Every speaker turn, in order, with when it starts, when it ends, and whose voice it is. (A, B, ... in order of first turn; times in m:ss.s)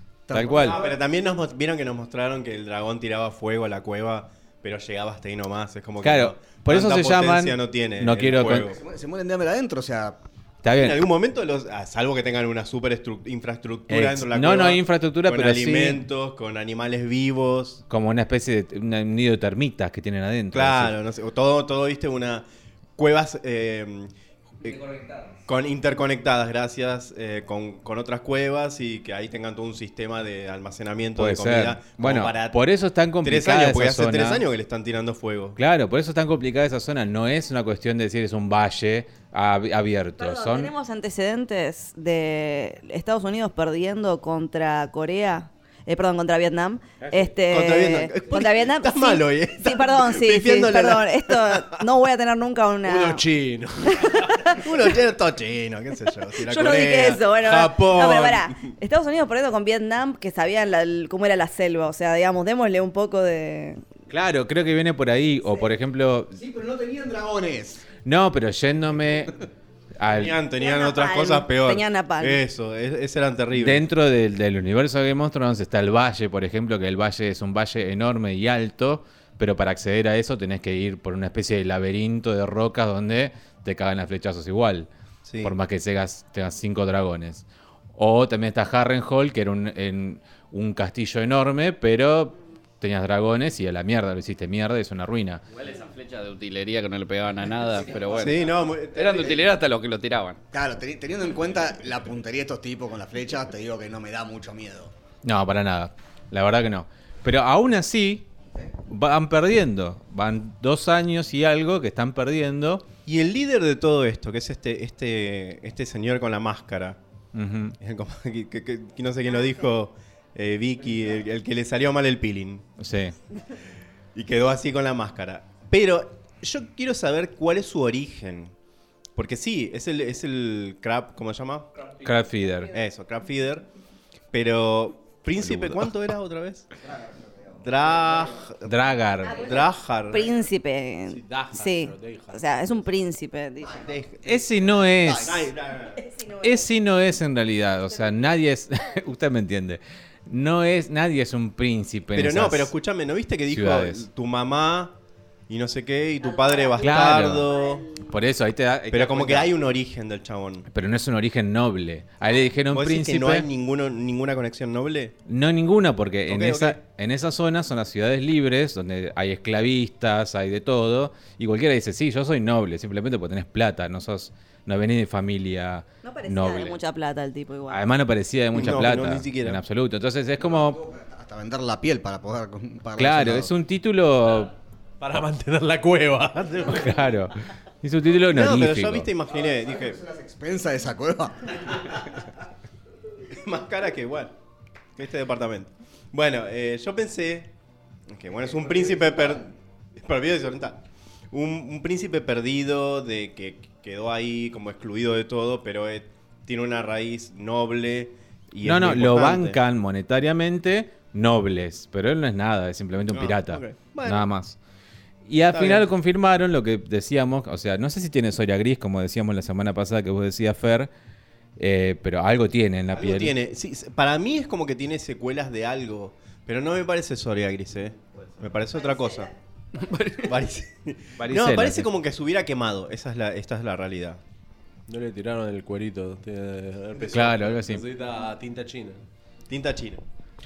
0:00.3-0:01.0 A
0:00.3-0:00.8 B
0:00.4-0:08.8 C
0:06.0-0:08.7 B
0:08.4-0:10.2 A
0:10.6-0:11.0 B
0:10.8-0:17.8 C
0:13.9-0:16.0 B
0:17.9-0:21.0 B
0:20.5-0:24.1 C
0:24.7-0:25.4 D
0:25.5-0:32.6 C
0:31.2-0:34.4 B
0:33.2-0:35.6 C
0:35.6-0:40.7 B
0:40.2-0:53.2 E
0:47.5-0:51.8 C
0:52.8-0:54.5 F
0:53.8-0:54.6 E
0:54.6-0:58.6 C
0:56.4-1:03.8 E
1:04.1-1:06.4 B
1:06.3-1:07.8 A
1:08.0-1:09.3 B
1:10.0-1:10.4 B
1:10.1-1:13.8 C
1:10.6-1:12.4 E
1:13.5-1:24.9 B
1:25.2-1:25.5 C
1:25.4-1:27.4 B
1:28.0-1:35.4 B
1:35.5-1:40.4 D
1:37.8-1:38.3 A
1:38.1-1:39.5 C
1:40.5-1:44.9 A
1:45.2-1:48.3 B
1:48.9-1:52.8 B
1:53.0-1:57.0 C
1:57.3-1:57.8 B
1:57.8-2:02.7 C
2:02.8-2:03.1 B
2:04.1-2:08.5 C
2:09.2-2:11.7 C
2:12.0-2:12.7 B
2:12.7-2:13.6 C
2:14.3-2:16.7 C
2:15.4-2:15.9 B
2:16.8-2:18.4 A
2:17.6-2:18.7 C
2:18.6-2:19.4 B
2:19.2-2:23.7 E
2:19.2-2:20.4 C
2:21.1-2:22.8 F
2:23.6-2:23.9 A
2:23.7-2:26.0 C
2:24.2-2:25.5 B
2:24.9-2:25.5 A
2:26.0-2:26.7 E
2:26.4-2:32.7 B
2:32.1-2:34.9 C
2:33.5-2:34.0 B
2:35.5-2:37.8 C
2:36.2-2:38.1 E
2:36.8-2:37.5 B
2:38.0-2:39.5 B
2:38.9-2:40.7 C
2:40.7-2:43.4 B
2:42.7-2:45.1 C
2:45.3-2:56.8 B
2:46.3-2:46.8 C
2:56.0-2:57.8 E
2:57.7-3:00.8 B
2:58.5-2:59.6 C
3:00.4-3:03.5 A
3:03.0-3:04.5 B
3:05.0-3:07.0 F
3:06.6-3:09.1 B
3:08.3-3:10.0 C
3:09.2-3:12.2 A
3:13.3-3:14.3 C
3:15.0-3:17.5 C
3:18.1-3:29.6 C
3:18.4-3:19.5 A
3:28.6-3:34.6 B
3:33.1-3:34.3 C
3:35.3-3:40.9 B
3:35.5-3:35.8 C
3:41.6-3:43.3 B
3:42.9-3:49.3 C
3:48.7-3:49.3 E
3:49.8-3:50.3 D
3:50.1-3:54.2 C
3:51.2-3:51.9 B
3:54.9-3:59.0 F
3:57.1-3:57.8 B
3:59.5-4:00.0 C